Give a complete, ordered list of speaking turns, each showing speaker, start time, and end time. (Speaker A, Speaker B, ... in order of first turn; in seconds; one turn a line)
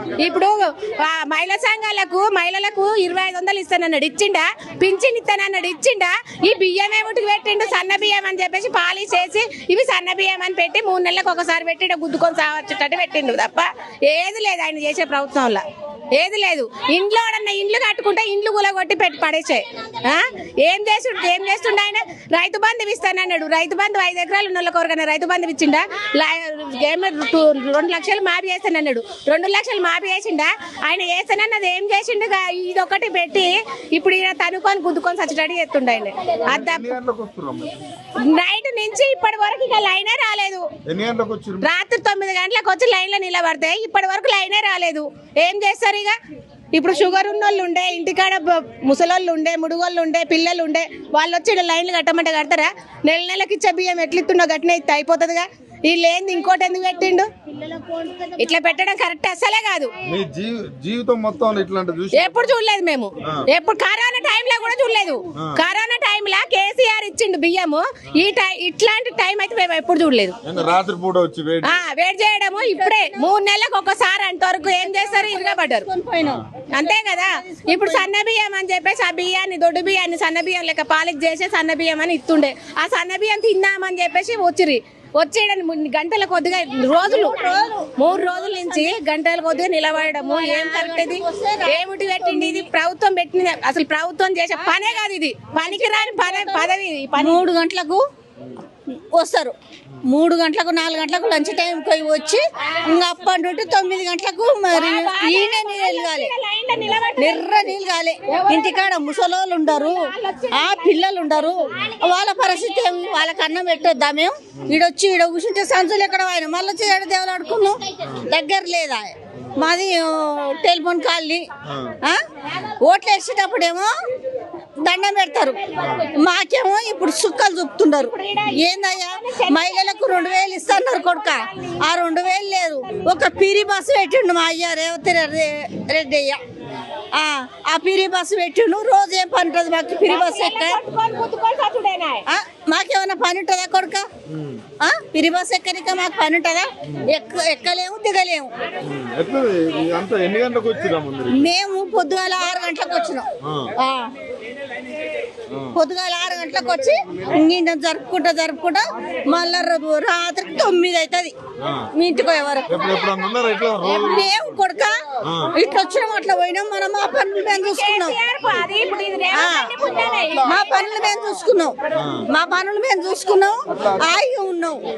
Speaker A: 0.2-15.6
Speaker A: 16.1-37.0
Speaker B: 36.5-37.8
Speaker A: 38.2-40.7
Speaker B: 40.9-41.7
Speaker A: 41.6-46.2
Speaker A: 46.7-57.3
Speaker A: 58.4-59.9
Speaker B: 60.0-62.5
Speaker A: 62.1-70.4
Speaker B: 70.4-71.8
Speaker A: 71.6-75.9
Speaker C: 72.5-73.3
Speaker C: 74.7-78.1
Speaker A: 76.7-97.4
Speaker C: 87.0-89.0
Speaker C: 90.1-92.7
Speaker C: 94.6-94.8
Speaker C: 95.6-98.0
Speaker C: 98.9-106.3
Speaker A: 104.7-107.7
Speaker C: 107.2-110.0
Speaker A: 108.3-108.9
Speaker A: 109.7-111.7
Speaker C: 110.5-121.5
Speaker B: 114.5-114.8
Speaker B: 118.0-118.3
Speaker B: 121.7-122.0
Speaker C: 122.8-123.9
Speaker C: 124.8-125.6
Speaker B: 125.8-126.1
Speaker C: 126.1-136.4
Speaker A: 128.0-133.2
Speaker C: 137.1-140.8
Speaker A: 140.1-142.2
Speaker C: 142.3-144.1
Speaker B: 144.3-144.7
Speaker C: 144.8-148.5
Speaker B: 146.8-147.1
Speaker B: 148.8-151.5
Speaker C: 151.3-153.3
Speaker B: 153.4-153.7
Speaker C: 153.8-154.1
Speaker B: 155.5-155.8
Speaker C: 155.7-161.3
Speaker B: 161.6-161.9
Speaker C: 161.9-162.8
Speaker B: 162.7-164.5
Speaker C: 163.8-164.9
Speaker B: 165.2-165.5
Speaker C: 165.5-168.2
Speaker A: 167.6-170.7
Speaker C: 169.3-169.8
Speaker B: 169.9-170.9
Speaker C: 170.4-171.8
Speaker B: 171.9-172.3
Speaker C: 172.3-174.8
Speaker B: 173.7-174.1